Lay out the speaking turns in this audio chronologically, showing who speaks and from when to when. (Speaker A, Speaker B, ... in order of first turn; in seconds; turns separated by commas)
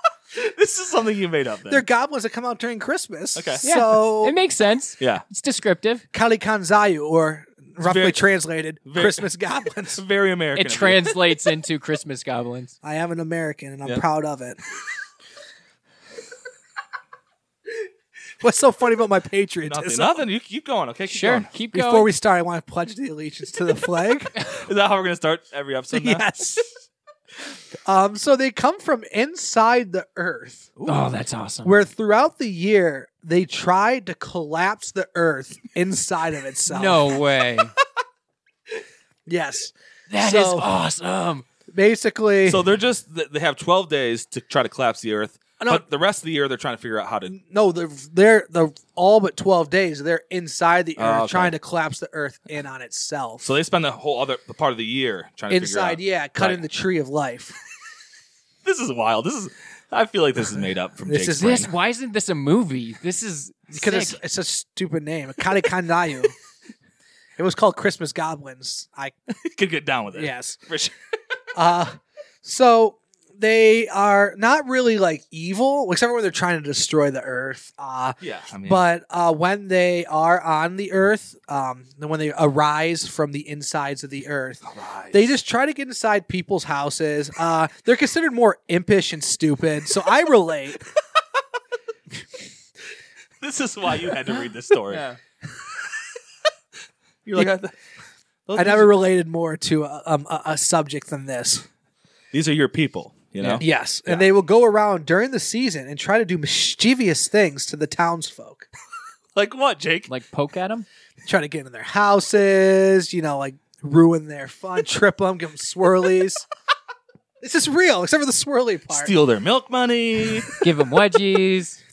Speaker A: 0.3-1.8, Speaker B: 1.7-4.4, Speaker A: 3.3-3.7, Speaker C: 3.6-6.0, Speaker B: 6.1-10.0, Speaker A: 7.8-8.2, Speaker A: 8.8-9.2, Speaker A: 9.9-11.2, Speaker C: 10.5-12.7, Speaker B: 12.8-14.6, Speaker B: 18.4-20.2, Speaker A: 19.6-21.5, Speaker C: 21.1-22.1, Speaker B: 21.7-24.4, Speaker A: 24.5-26.2, Speaker B: 25.9-26.7, Speaker B: 27.9-30.7, Speaker A: 30.8-31.1, Speaker C: 30.9-31.8, Speaker B: 31.6-37.1, Speaker C: 36.7-37.7, Speaker B: 39.2-40.7, Speaker C: 40.1-41.4, Speaker B: 41.7-42.6, Speaker A: 42.4-47.3, Speaker B: 47.3-53.5, Speaker A: 51.0-51.5, Speaker A: 53.4-56.6, Speaker B: 55.5-57.5, Speaker A: 58.6-61.7, Speaker B: 61.0-61.7, Speaker C: 61.4-64.2, Speaker B: 63.7-66.3, Speaker B: 67.4-69.1, Speaker A: 69.4-70.9, Speaker B: 70.1-70.6, Speaker B: 71.5-90.8, Speaker A: 78.2-78.8, Speaker A: 84.6-85.3, Speaker A: 93.4-95.0, Speaker C: 94.9-95.2, Speaker A: 97.2-97.7, Speaker A: 98.5-98.9, Speaker B: 98.5-101.6, Speaker A: 102.3-104.3, Speaker B: 103.6-108.7, Speaker A: 109.3-110.1, Speaker C: 110.1-110.9, Speaker B: 111.2-116.5, Speaker B: 117.4-119.1, Speaker A: 118.9-120.5, Speaker C: 120.6-121.8